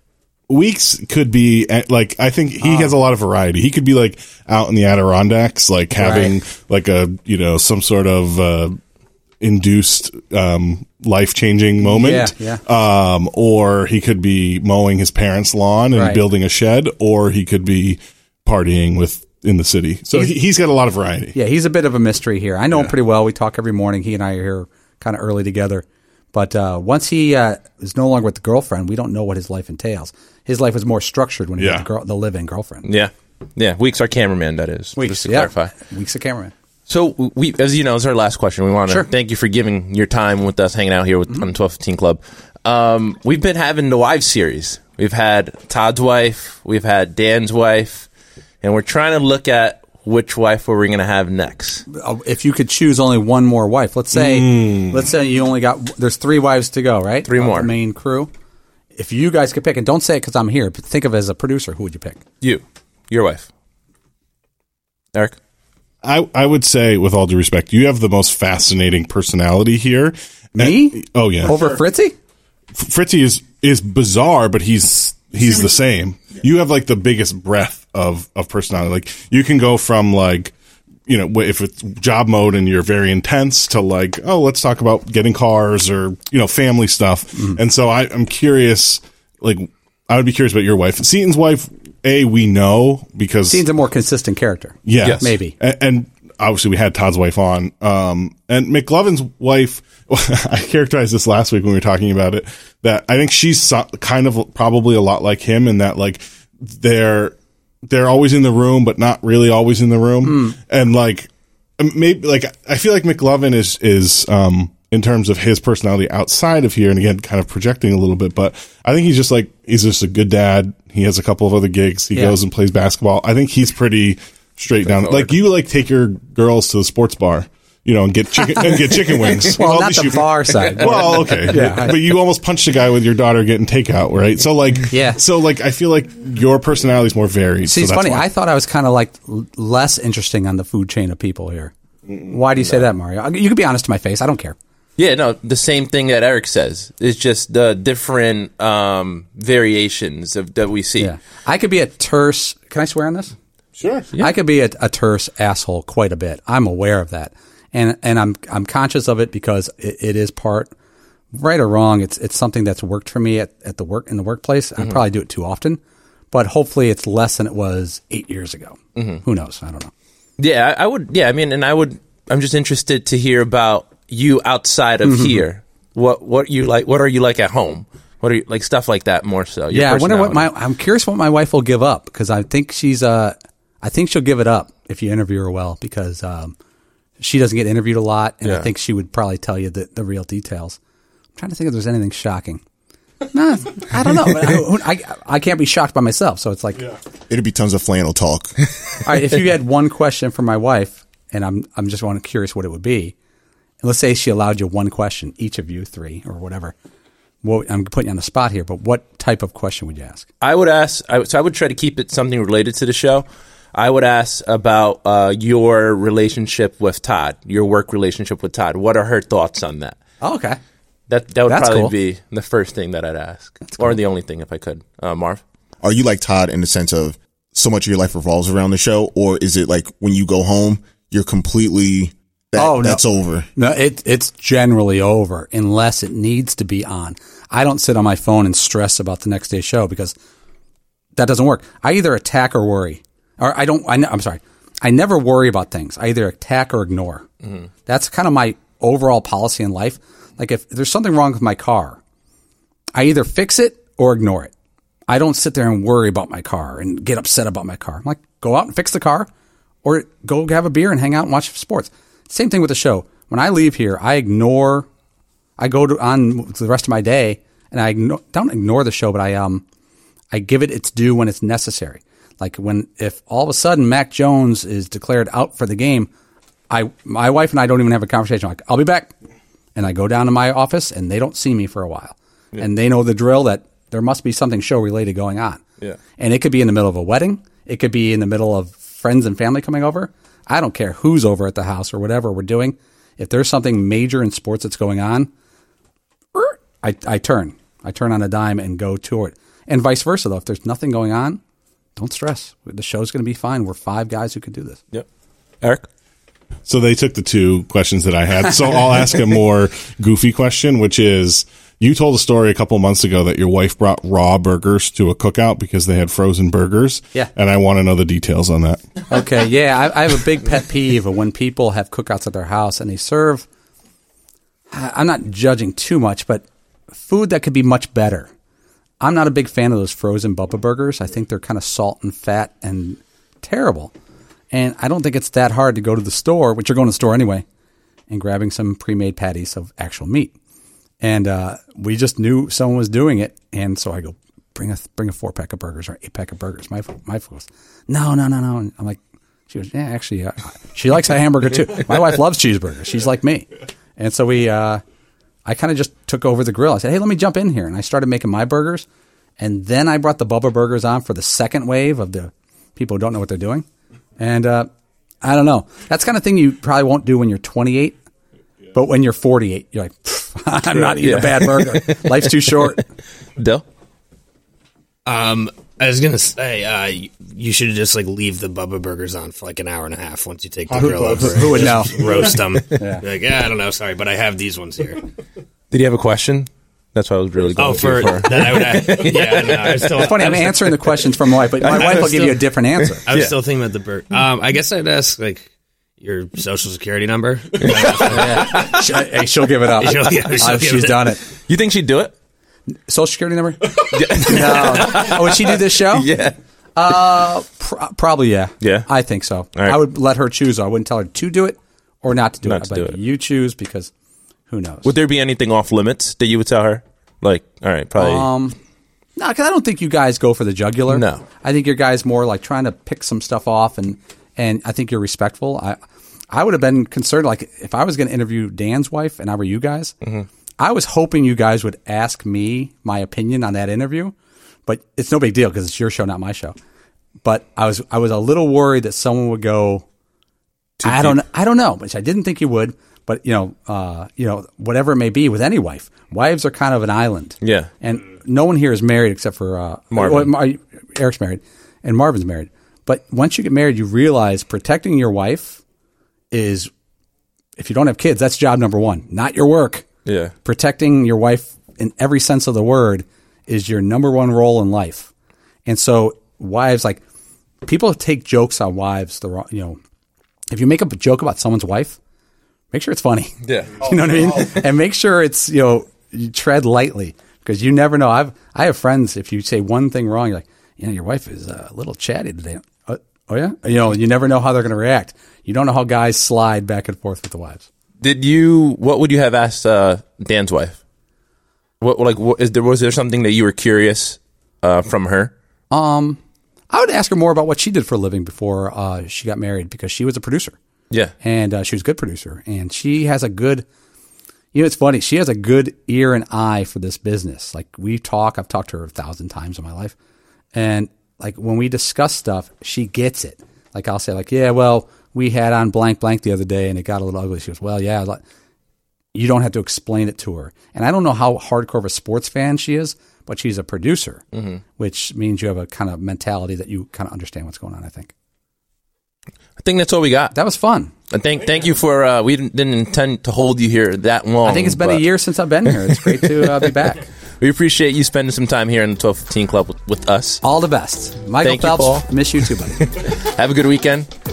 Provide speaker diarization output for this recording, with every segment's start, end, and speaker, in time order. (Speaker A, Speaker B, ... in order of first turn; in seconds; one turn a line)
Speaker A: 0.5-8.8
Speaker B: 2.6-2.9
Speaker B: 6.0-6.3
Speaker A: 9.4-21.4
Speaker B: 11.8-12.6
Speaker B: 15.9-16.2
Speaker B: 21.3-32.9
Speaker A: 31.6-31.9
Speaker C: 32.8-35.7
Speaker B: 35.0-36.5
Speaker C: 36.9-48.1
Speaker C: 48.6-51.8
Speaker B: 51.9-58.3
Speaker A: 54.1-55.0
Speaker C: 57.3-57.7
Speaker B: 59.0-62.2
Speaker C: 62.4-63.5
Speaker A: 66.0-71.8
Speaker B: 70.5-72.1
Speaker A: 72.8-80.5
Speaker A: 81.1-93.7
Speaker B: 87.3-87.6
Speaker B: 93.5-95.5
Speaker A: 94.9-138.3
Speaker B: 110.2-110.6
Speaker C: 125.0-125.3
Speaker B: 128.5-132.0
Speaker C: 130.7-131.5
Speaker B: 134.9-135.2
Speaker B: 137.7-144.6
Speaker C: 145.0-151.1
Speaker B: 151.0-153.3
Speaker A: 153.8-154.1
Speaker B: 154.2-160.7
Speaker B: 161.3-165.8
Speaker B: 166.3-169.9
Speaker C: 169.0-169.2
Speaker C: 170.4-180.5
Speaker B: 175.0-175.4
Speaker B: 179.7-186.6
Speaker B: 187.2-190.8
Speaker B: 191.4-192.6
Speaker B: 193.3-196.9
Speaker D: 197.3-198.6
Speaker B: 199.0-203.2
Speaker B: 203.8-206.7
Speaker B: 207.4-210.3
Speaker C: 210.4-220.0
Speaker B: 220.2-220.6
Speaker C: 221.1-225.4
Speaker B: 221.5-221.9
Speaker D: 225.8-233.5
Speaker B: 232.6-233.0
Speaker B: 233.6-240.2
Speaker B: 241.2-247.3
Speaker B: 247.9-252.0
Speaker B: 252.9-254.5
Speaker B: 255.1-259.3
Speaker B: 259.8-264.9
Speaker B: 265.6-269.6
Speaker B: 270.3-276.1
Speaker B: 276.7-279.1
Speaker B: 279.8-285.6
Speaker B: 286.2-295.3
Speaker B: 296.4-301.4
Speaker B: 302.0-304.8
Speaker C: 305.6-305.9
Speaker A: 306.7-318.9
Speaker B: 319.1-323.5
Speaker B: 324.7-328.3
Speaker B: 329.0-333.9
Speaker B: 334.5-337.4
Speaker B: 338.1-340.3
Speaker B: 341.0-354.8
Speaker B: 355.4-358.9
Speaker B: 359.4-363.7
Speaker B: 364.2-364.7
Speaker B: 365.2-368.0
Speaker B: 368.7-372.8
Speaker C: 370.9-372.7
Speaker C: 373.4-373.6
Speaker E: 375.1-385.1
Speaker B: 380.7-383.0
Speaker C: 385.7-390.2
Speaker E: 387.6-390.8
Speaker B: 390.0-393.1
Speaker C: 391.6-392.4
Speaker E: 393.1-395.5
Speaker C: 393.1-393.4
Speaker E: 396.0-398.8
Speaker C: 397.6-398.9
Speaker B: 398.1-401.2
Speaker E: 399.8-401.1
Speaker C: 400.1-400.4
Speaker C: 401.5-402.1
Speaker B: 402.9-406.1
Speaker C: 403.8-406.4
Speaker B: 406.8-413.9
Speaker C: 408.6-408.9
Speaker C: 412.4-412.9
Speaker B: 414.5-414.9
Speaker C: 414.9-418.3
Speaker B: 418.0-418.6
Speaker B: 419.2-425.8
Speaker C: 420.9-421.2
Speaker B: 426.3-429.9
Speaker B: 430.6-434.1
Speaker B: 434.7-436.6
Speaker B: 437.2-439.9
Speaker C: 440.8-441.2
Speaker B: 440.8-455.6
Speaker C: 447.4-447.7
Speaker C: 449.9-450.3
Speaker B: 456.3-456.7
Speaker B: 457.6-459.9
Speaker C: 460.1-460.3
Speaker B: 460.4-465.1
Speaker B: 465.7-467.0
Speaker B: 467.6-469.8
Speaker B: 470.5-472.0
Speaker B: 472.7-487.7
Speaker C: 473.4-473.8
Speaker C: 488.0-490.8
Speaker C: 491.8-495.3
Speaker B: 495.7-496.2
Speaker B: 496.7-500.6
Speaker B: 501.2-503.7
Speaker B: 504.5-509.9
Speaker B: 510.5-518.2
Speaker B: 519.1-524.2
Speaker C: 524.3-524.6
Speaker B: 524.8-528.1
Speaker C: 529.6-530.3
Speaker B: 530.3-530.9
Speaker C: 531.1-535.0
Speaker B: 534.4-537.0
Speaker C: 536.0-536.3
Speaker C: 537.4-540.4
Speaker B: 540.4-542.9
Speaker C: 541.4-542.0
Speaker C: 542.8-544.1